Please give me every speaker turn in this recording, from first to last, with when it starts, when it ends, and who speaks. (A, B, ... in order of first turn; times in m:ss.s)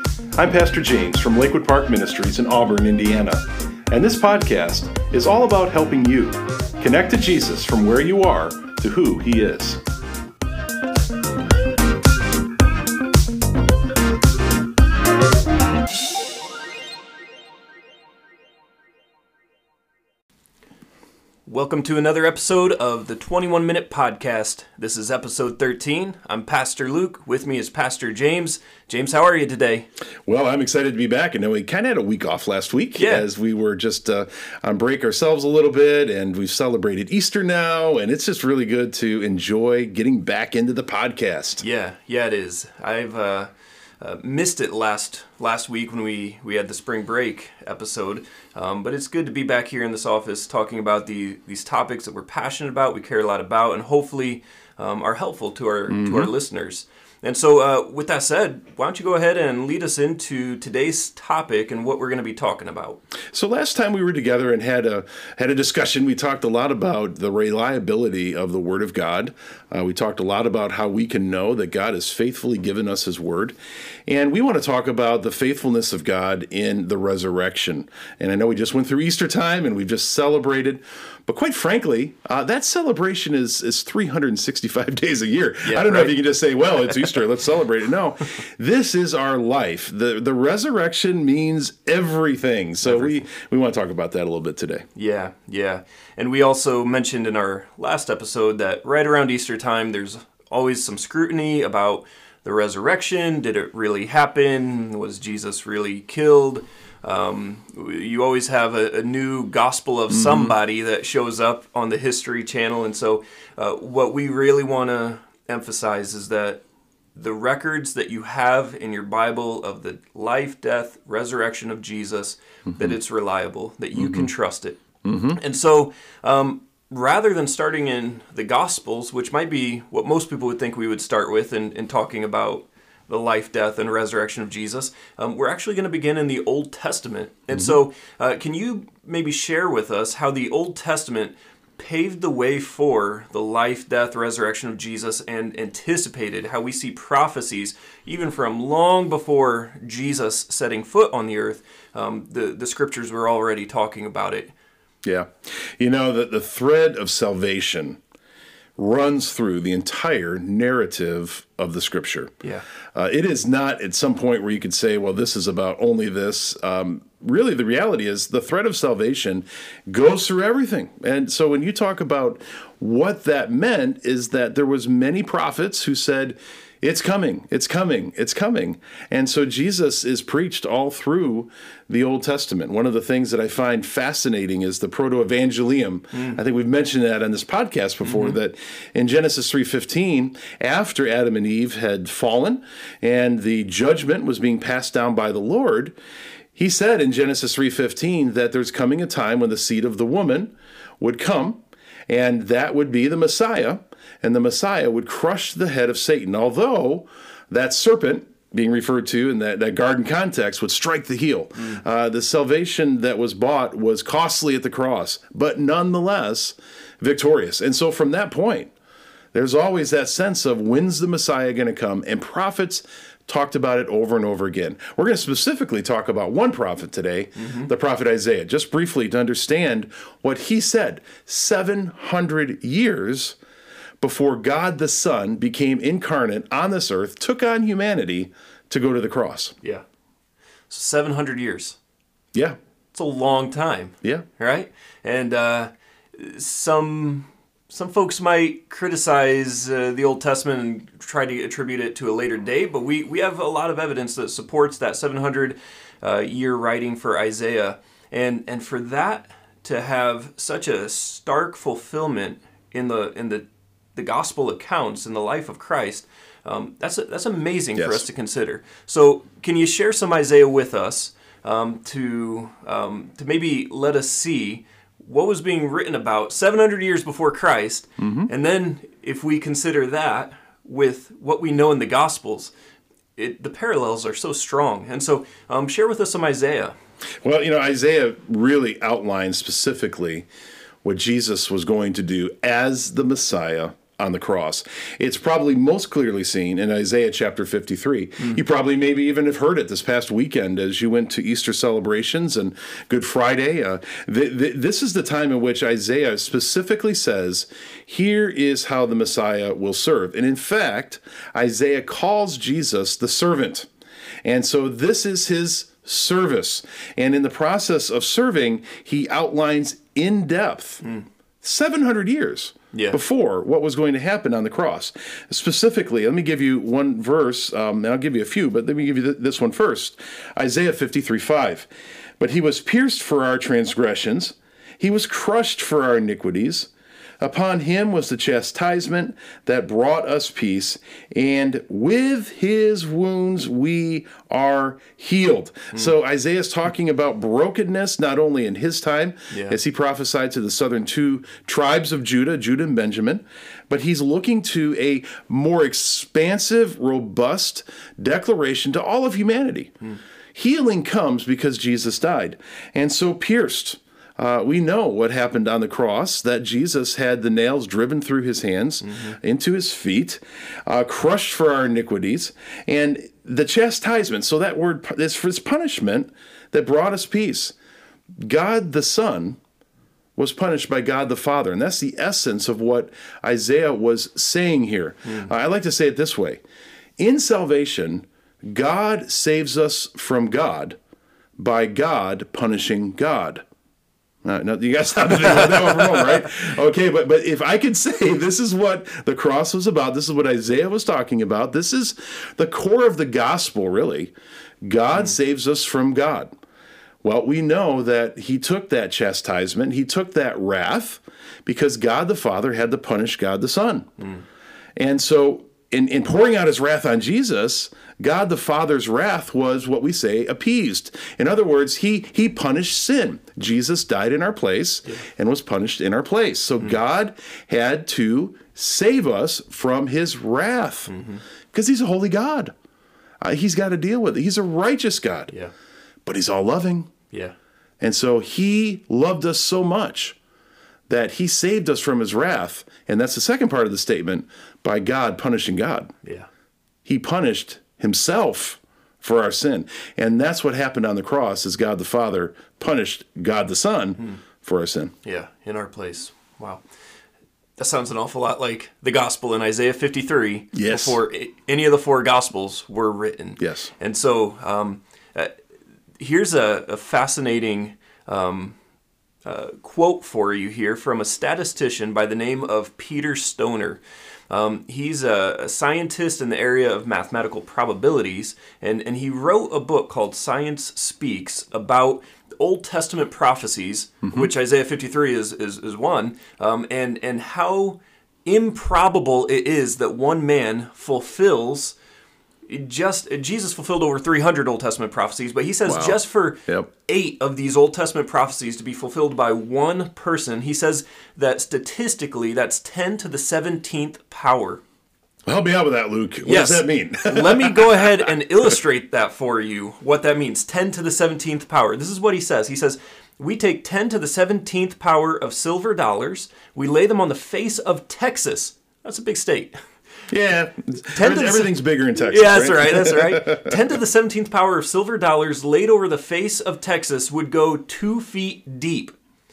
0:00.4-0:09.8 A
0:21.4-0:29.9 B
0:30.3-0:41.6 A
0:33.0-0:33.3 B
0:41.6-1:03.0 B
0:55.9-0:56.3 A
1:03.3-1:34.8 A
1:25.6-1:26.2 B
1:32.8-1:33.1 B
1:35.0-1:56.6 B
1:50.1-1:50.6 A
1:57.2-2:04.8 B
2:02.7-2:03.0 A
2:04.0-2:04.3 A
2:05.0-2:05.4 A
2:05.3-2:34.5 B
2:35.0-2:38.0 A
2:38.8-2:42.3 A
2:42.9-3:15.9 A
3:06.1-3:06.4 B
3:08.0-3:08.4 B
3:16.6-3:38.7 A
3:39.3-3:53.4 A
3:47.4-3:47.7 B
3:54.0-3:59.5 A
4:00.7-4:01.8 B
4:02.9-4:42.5 B
4:27.8-4:28.0 A
4:38.0-4:38.3 A
4:43.2-4:46.7 B
4:47.2-4:50.2 A
4:50.8-5:13.7 A
5:14.2-5:20.8 A
5:21.4-5:31.7 A
5:22.7-5:23.0 B
5:32.2-5:59.7 A
5:49.3-5:49.6 B
6:00.3-6:17.5 A
6:08.8-6:09.2 B
6:18.2-6:19.4 A
6:20.2-6:26.4 A
6:25.0-6:25.3 B
6:27.0-6:30.8 A
6:31.4-6:33.4 A
6:34.2-6:46.3 A
6:35.6-6:36.0 B
6:47.0-6:53.9 A
6:54.0-6:54.2 B
6:54.8-7:10.9 A
7:10.9-7:11.2 B
7:11.5-7:12.5 A
7:13.2-7:15.3 A
7:16.0-7:16.9 A
7:17.1-7:17.4 B
7:17.8-7:20.2 A
7:20.9-7:25.9 A
7:26.8-7:34.9 A
7:35.0-7:36.6 B
7:37.6-7:45.3 B
7:40.5-7:41.0 A
7:43.4-7:43.7 A
7:46.0-7:48.6 B
7:49.2-8:11.8 B
8:12.5-8:24.6 B
8:15.7-8:16.7 A
8:25.2-8:28.1 A
8:26.2-8:39.6 B
8:40.1-8:43.6 A
8:41.0-8:49.0 B